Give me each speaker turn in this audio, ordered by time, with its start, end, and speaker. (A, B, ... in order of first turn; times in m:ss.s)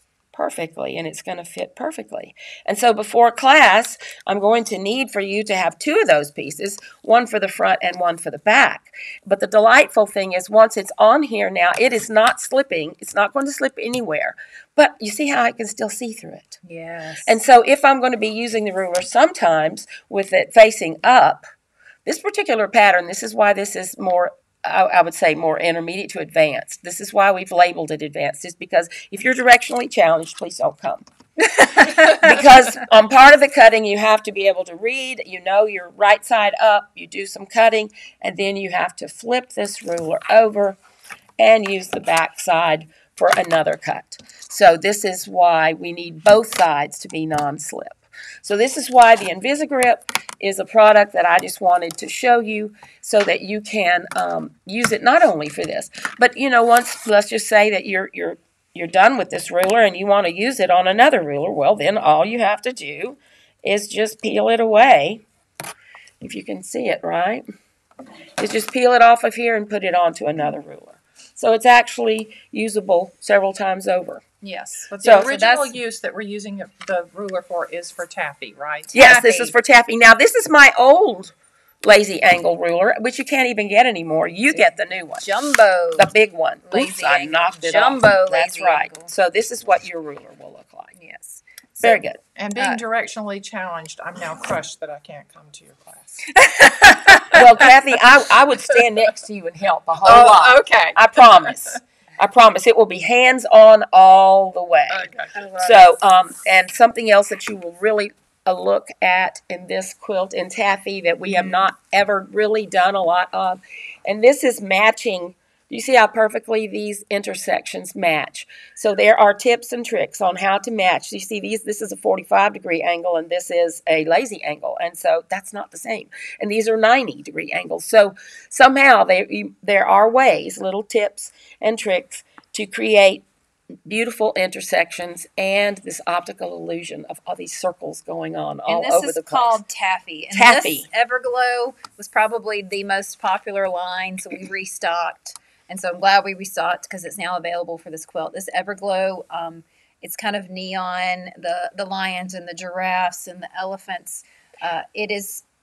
0:00.3-0:16.6 A
0:16.6-0:17.3 B
0:17.2-0:21.4 A
0:22.0-0:31.0 A
0:31.5-0:32.3 B
0:31.7-0:40.8 A
0:41.4-1:05.2 A
1:06.2-1:07.4 A
1:08.4-1:14.2 A
1:14.4-1:15.7 B
1:14.9-1:18.9 C
1:15.0-1:15.3 A
1:18.9-1:19.5 B
1:18.9-1:25.3 A
1:24.5-1:26.1 B
1:26.0-1:30.9 A
1:26.6-1:29.1 B
1:30.9-1:32.0 B
1:31.8-1:32.2 A
1:32.4-1:37.4 C
1:32.6-1:32.8 B
1:36.3-1:37.4 B
1:37.3-2:13.2 A
1:40.0-1:41.8 C
1:44.9-1:45.4 C
1:45.3-1:46.0 B
2:13.8-2:19.6 A
2:18.7-2:35.4 B
2:20.3-2:20.9 A